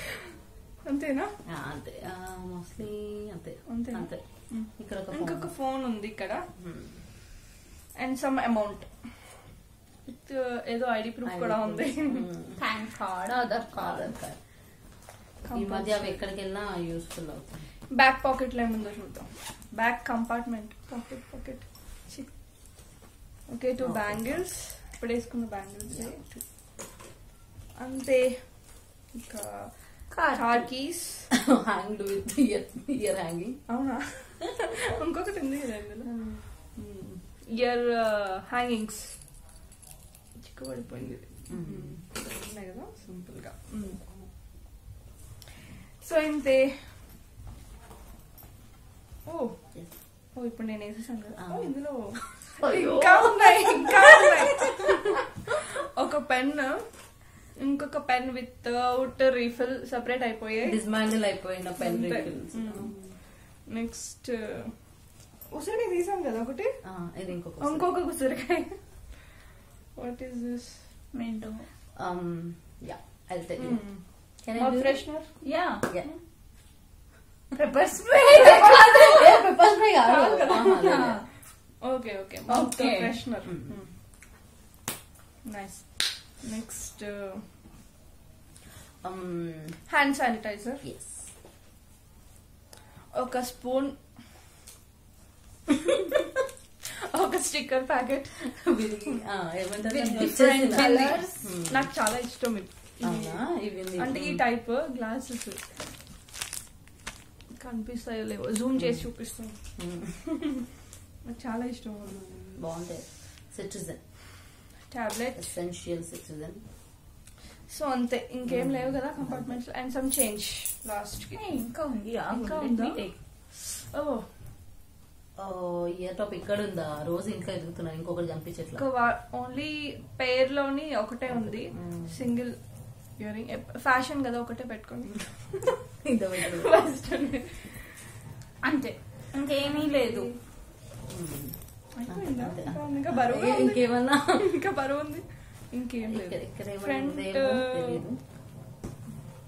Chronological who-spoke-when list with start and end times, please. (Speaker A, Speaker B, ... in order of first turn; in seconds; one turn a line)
Speaker A: 0.8-1.3
Speaker B: 1.4-5.5
Speaker A: 3.7-6.5
Speaker B: 6.6-7.0
Speaker A: 8.0-9.5
Speaker A: 10.1-12.3
Speaker B: 11.2-12.6
Speaker C: 12.6-14.2
Speaker B: 13.8-14.4
Speaker A: 15.4-16.2
Speaker B: 15.5-17.6
Speaker A: 17.9-22.3
Speaker A: 23.5-26.2
Speaker B: 23.8-24.4
Speaker B: 25.9-26.4
Speaker A: 27.8-31.3
Speaker C: 30.1-30.6
Speaker B: 31.3-33.6
Speaker A: 33.7-39.2
Speaker A: 40.4-44.0
Speaker B: 41.5-42.0
Speaker A: 46.0-46.9
Speaker A: 49.2-56.8
Speaker B: 51.4-54.0
Speaker A: 57.5-60.8
Speaker B: 60.6-63.1
Speaker A: 61.8-65.0
Speaker A: 65.5-66.8
Speaker B: 66.8-67.9
Speaker A: 67.6-68.8
Speaker A: 70.0-70.9
Speaker C: 71.1-71.7
Speaker B: 72.0-73.8
Speaker A: 73.6-75.5
Speaker B: 74.4-75.0
Speaker C: 75.4-75.8
Speaker C: 77.5-79.3
Speaker B: 78.4-81.2
Speaker A: 80.0-81.0
Speaker C: 80.8-81.2
Speaker A: 81.8-83.9
Speaker C: 82.5-83.2
Speaker A: 85.4-87.4
Speaker B: 89.0-89.8
Speaker A: 89.9-90.8
Speaker B: 90.8-91.3
Speaker A: 93.1-94.0
Speaker A: 97.1-98.7
Speaker B: 98.5-101.9
Speaker C: 99.9-101.3
Speaker A: 100.2-105.8
Speaker B: 103.0-104.4
Speaker A: 107.6-109.8
Speaker B: 108.8-109.1
Speaker B: 109.8-110.2
Speaker A: 111.3-112.4
Speaker B: 112.5-114.0
Speaker A: 114.9-115.5
Speaker B: 115.3-116.6
Speaker A: 117.7-121.6
Speaker B: 118.4-119.6
Speaker C: 121.3-123.2
Speaker A: 122.3-124.3
Speaker B: 125.4-128.8
Speaker A: 128.8-132.6
Speaker B: 131.3-132.2
Speaker A: 133.1-135.7
Speaker B: 136.0-136.9
Speaker A: 136.4-138.0
Speaker C: 138.6-140.3
Speaker A: 139.6-140.4
Speaker B: 141.1-144.4
Speaker A: 141.9-148.0
Speaker B: 146.0-148.2